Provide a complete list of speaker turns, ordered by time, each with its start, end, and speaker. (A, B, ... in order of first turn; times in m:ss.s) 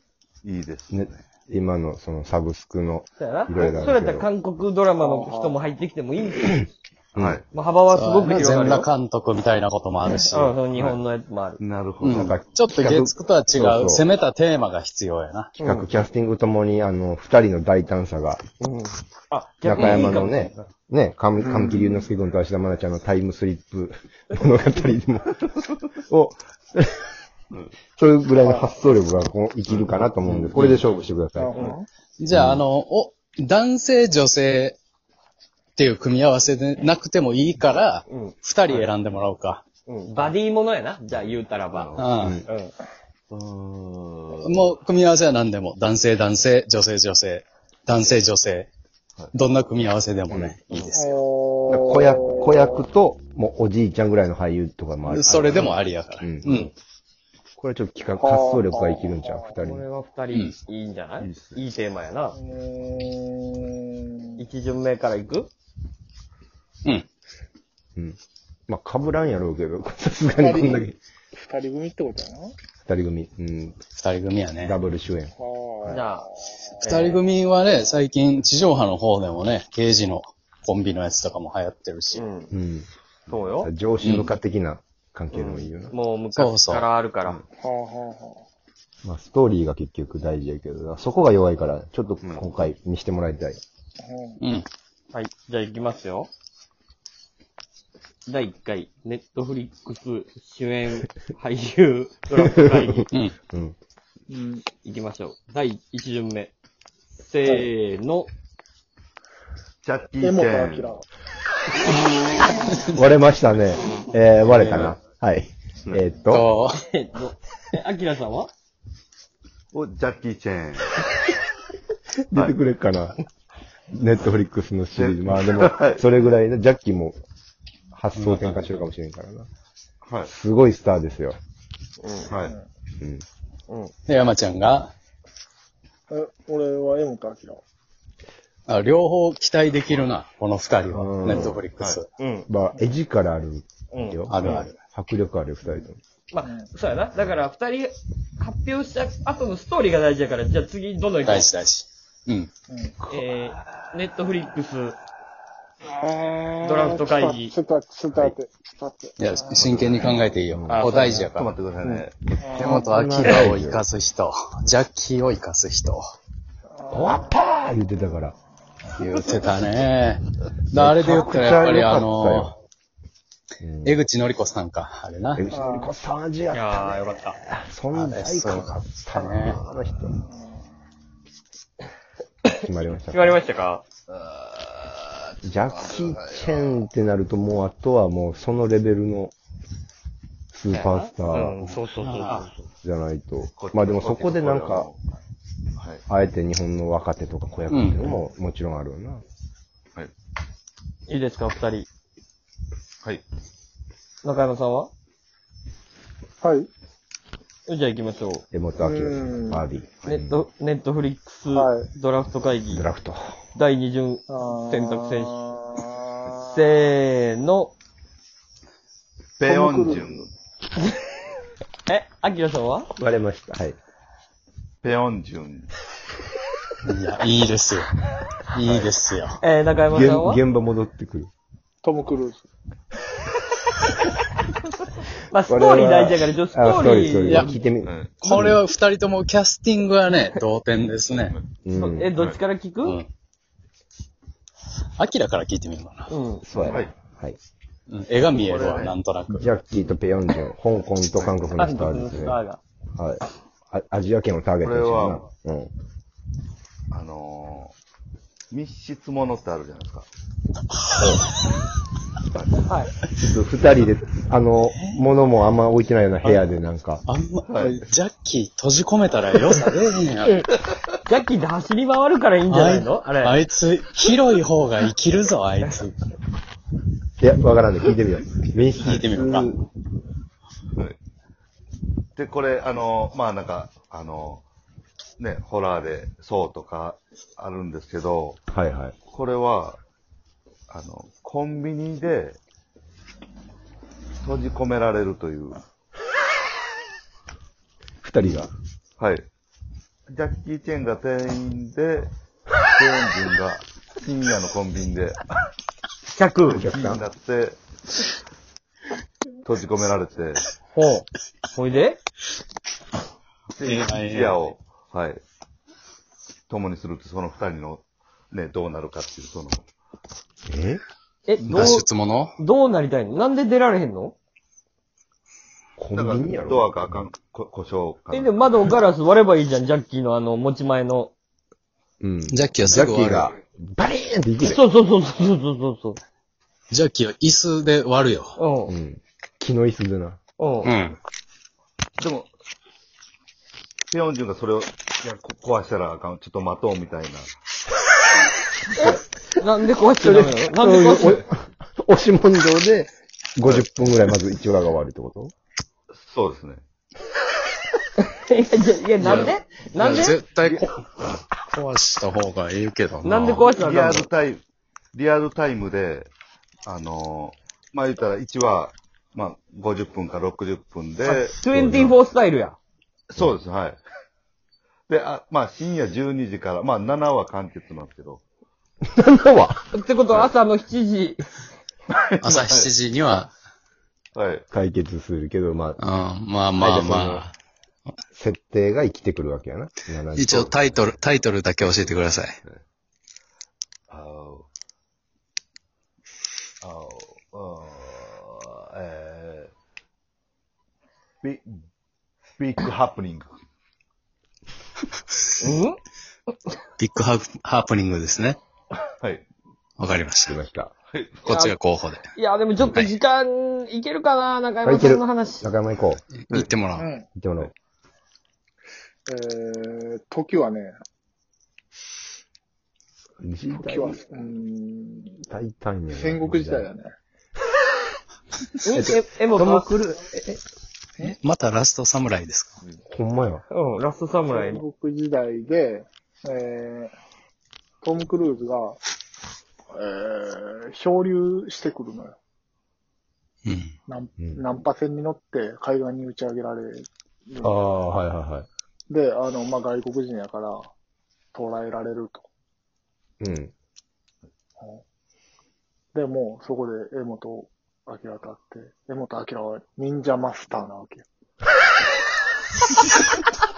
0:00.4-0:01.2 A
0:00.9-0:04.3 B
0:03.2-0:06.6 C
0:05.0-0:05.6 D
0:07.1-0:07.4 A
0:07.5-0:08.9 C
0:07.9-0:10.6 E
0:10.3-0:11.6 C
0:10.7-0:11.0 A
0:11.6-0:12.4 A
0:12.0-0:15.5 E
0:12.1-0:14.0 B
0:15.6-0:15.9 C
0:15.6-0:18.4 B
0:18.6-0:20.6 C
0:19.6-0:27.1 B
0:19.8-0:20.2 E
0:21.4-0:22.0 D
0:28.0-0:31.7 B
0:28.4-0:28.8 D
0:29.7-0:30.0 A
0:30.3-0:30.8 E
0:31.4-0:31.9 D
0:32.2-0:34.8 E
0:32.3-0:32.6 B
0:35.8-0:39.6 E
0:38.1-0:38.9 C
0:39.8-0:42.7 C
0:41.1-0:42.4 A
0:42.0-0:42.4 E
0:43.3-0:44.7 A
0:44.4-0:48.7 E
0:49.3-0:51.1 E
0:50.7-0:51.0 C
0:50.9-0:52.8 D
0:51.7-0:56.5 B
0:55.0-0:56.7 E
0:57.6-0:59.8 B
0:58.2-0:59.4 D
0:59.6-1:02.4 C
1:01.2-1:01.6 A
1:02.3-1:04.4 D
1:04.4-1:05.5 C
1:08.7-1:11.0 B
1:10.4-1:12.5 D
1:12.8-1:13.8 B
1:14.0-1:14.7 E
1:14.6-1:15.3 B
1:15.4-1:16.1 D
1:15.9-1:17.2 C
1:16.8-1:22.2 E
1:22.1-1:22.5 C
1:22.5-1:22.9 B
1:23.3-1:23.7 C
1:23.6-1:25.9 B
1:24.0-1:24.3 E
1:25.3-1:27.4 C
1:26.3-1:26.9 E
1:27.6-1:28.4 D
1:29.0-1:33.6 B
1:32.2-1:32.5 A
1:34.0-1:34.4 D
1:34.4-1:34.7 E
1:35.1-1:36.3 C
1:38.2-1:43.1 C
1:42.3-1:43.7 B
1:44.3-1:44.6 D
1:44.8-1:46.5 C
1:47.2-1:48.3 C
1:49.8-1:51.0 A
1:50.2-1:51.0 D
1:52.8-1:56.5 B
1:54.5-1:54.9 E
1:56.3-1:56.8 E
1:56.8-1:58.5 C
1:59.7-2:01.0 A
2:02.3-2:03.2 B
2:03.9-2:07.2 B
2:04.9-2:06.0 A
2:07.9-2:09.5 B
2:08.2-2:08.6 E
2:10.0-2:10.3 A
2:10.2-2:11.4 B
2:12.0-2:12.3 C
2:12.3-2:12.5 A
2:12.3-2:12.6 D
2:13.0-2:13.2 B
2:14.1-2:14.9 E
2:16.1-2:17.6 D
2:18.7-2:22.1 E
2:20.9-2:21.6 B
2:22.2-2:22.5 C
2:22.5-2:26.0 B
2:23.9-2:24.2 C
2:24.3-2:24.7 E
2:26.3-2:31.5 C
2:26.4-2:26.7 D
2:31.2-2:32.5 E
2:32.7-2:33.0 D
2:33.1-2:35.0 C
2:35.8-2:39.7 D
2:36.6-2:37.5 C
2:39.2-2:41.5 E
2:39.7-2:40.0 A
2:40.5-2:40.9 B
2:40.7-2:41.3 D
2:40.8-2:42.6 A
2:42.5-2:46.0 E
2:42.5-2:42.8 D
2:42.6-2:43.8 B
2:46.8-2:47.2 D
2:46.9-2:48.4 B
2:48.9-2:52.5 E
2:50.7-2:52.5 B
2:53.6-2:54.0 B
2:53.8-2:55.4 E
2:55.4-3:00.2 B
2:55.5-2:55.9 D
2:56.5-2:57.4 C
2:57.9-2:59.6 E
3:02.6-3:03.4 B
3:03.1-3:03.8 C
3:04.1-3:05.1 A
3:05.4-3:09.3 B
3:05.6-3:06.8 A
3:10.5-3:11.8 B
3:10.7-3:12.6 C
3:12.0-3:12.4 E
3:12.8-3:14.9 B
3:13.5-3:15.0 A
3:15.8-3:16.0 A
3:16.1-3:19.2 B
3:17.7-3:18.2 E
3:21.1-3:21.9 C
3:24.2-3:24.9 C
3:26.4-3:26.7 D
3:27.7-3:28.4 C
3:28.5-3:30.4 B
3:28.8-3:29.6 D
3:30.0-3:32.8 C
3:31.5-3:31.9 D
3:32.7-3:33.4 B
3:33.5-3:35.4 C
3:34.3-3:36.3 D
3:36.3-3:37.7 C
3:39.4-3:40.3 A
3:39.4-3:40.2 D
3:41.9-3:42.9 C
3:43.0-3:43.8 B
3:44.8-3:45.7 A
3:46.8-3:47.9 E
3:48.5-3:49.4 E
3:49.4-3:50.4 C
3:49.9-3:51.3 B
3:51.8-3:52.4 D
3:55.3-3:57.5 C
3:55.5-3:58.6 B
3:57.2-3:57.5 E
3:57.8-3:58.2 A
3:58.2-4:01.3 E
4:01.6-4:02.1 B
4:01.7-4:03.0 C
4:05.0-4:06.1 E
4:06.1-4:06.8 C
4:06.4-4:07.4 B
4:07.9-4:09.5 E
4:08.3-4:08.9 A
4:09.4-4:12.4 B
4:11.2-4:11.4 A
4:11.6-4:12.6 C
4:13.0-4:15.7 B
4:14.6-4:15.3 A
4:16.9-4:17.7 A
4:18.5-4:20.1 A
4:22.3-4:22.7 A
4:23.1-4:27.0 B
4:24.7-4:25.0 E
4:27.0-4:30.3 E
4:27.5-4:27.8 A
4:30.2-4:30.5 C
4:31.0-4:33.4 C
4:32.5-4:36.0 E
4:37.2-4:39.6 B
4:38.8-4:39.5 E
4:42.2-4:44.4 A
4:45.2-4:48.4 A
4:48.5-4:49.0 B
4:49.1-4:49.8 A
4:50.7-4:52.4 A
4:54.2-4:55.6 A
4:58.0-4:58.5 B
4:58.2-4:58.5 A
4:59.0-4:59.2 A
5:00.1-5:02.1 A
5:02.7-5:05.2 A
5:06.1-5:06.6 C
5:06.4-5:07.6 A
5:06.5-5:07.0 B
5:09.4-5:10.4 A
5:10.7-5:12.0 C
5:13.5-5:15.2 A
5:13.6-5:14.4 E
5:16.5-5:19.6 A
5:20.5-5:20.8 B
5:21.2-5:21.8 C
5:21.4-5:21.8 A
5:21.5-5:22.3 E
5:22.4-5:24.1 C
5:25.8-5:27.0 B
5:25.9-5:28.7 A
5:28.1-5:31.1 C
5:32.0-5:34.6 B
5:32.3-5:33.3 E
5:34.4-5:36.0 C
5:36.7-5:38.3 E
5:38.4-5:38.7 C
5:38.7-5:40.2 B
5:40.4-5:40.7 C
5:40.6-5:41.0 E
5:42.0-5:42.3 A
5:43.9-5:47.3 A
5:48.7-5:51.2 C
5:50.0-5:55.3 B
5:55.9-5:56.6 A
5:58.0-6:00.2 C
5:59.0-6:00.8 E
6:01.5-6:03.5 E
6:03.0-6:04.1 C
6:03.6-6:04.4 A
6:04.9-6:06.1 A
6:06.6-6:11.8 A
6:11.0-6:12.6 C
6:11.5-6:11.9 B
6:13.1-6:13.8 A
6:14.9-6:18.2 A
6:19.0-6:19.7 B
6:19.7-6:21.3 C
6:22.2-6:23.3 E
6:22.2-6:22.7 A
6:24.1-6:24.4 A
6:24.5-6:25.8 B
6:25.8-6:27.3 E
6:26.6-6:27.3 B
6:28.2-6:30.6 B
6:30.1-6:32.4 E
6:33.9-6:34.4 A
6:36.6-6:39.5 A
6:41.2-6:41.5 A
6:42.4-6:43.3 A
6:45.4-6:45.8 C
6:46.8-6:48.4 E
6:49.8-6:50.4 E
6:50.3-6:50.7 B
6:50.9-6:51.3 A
6:51.2-6:52.1 E
6:51.3-6:51.5 C
6:52.1-6:55.5 C
6:52.7-6:52.9 E
6:54.6-6:56.0 B
6:56.2-6:56.9 E
6:56.8-6:57.0 D
6:57.1-6:57.5 B
6:59.1-7:00.7 D
7:03.2-7:04.0 B
7:03.5-7:05.2 D
7:05.3-7:06.7 B
7:05.9-7:06.9 D
7:08.6-7:09.7 C
7:08.7-7:10.4 B
7:11.0-7:12.5 E
7:12.9-7:13.4 B
7:13.5-7:14.6 C
7:14.3-7:16.9 D
7:17.8-7:18.8 D
7:19.7-7:22.1 D
7:23.4-7:23.7 E
7:23.9-7:27.5 D
7:27.4-7:28.5 B
7:28.9-7:30.7 D
7:31.3-7:32.3 D
7:33.2-7:33.5 B
7:35.9-7:41.0 D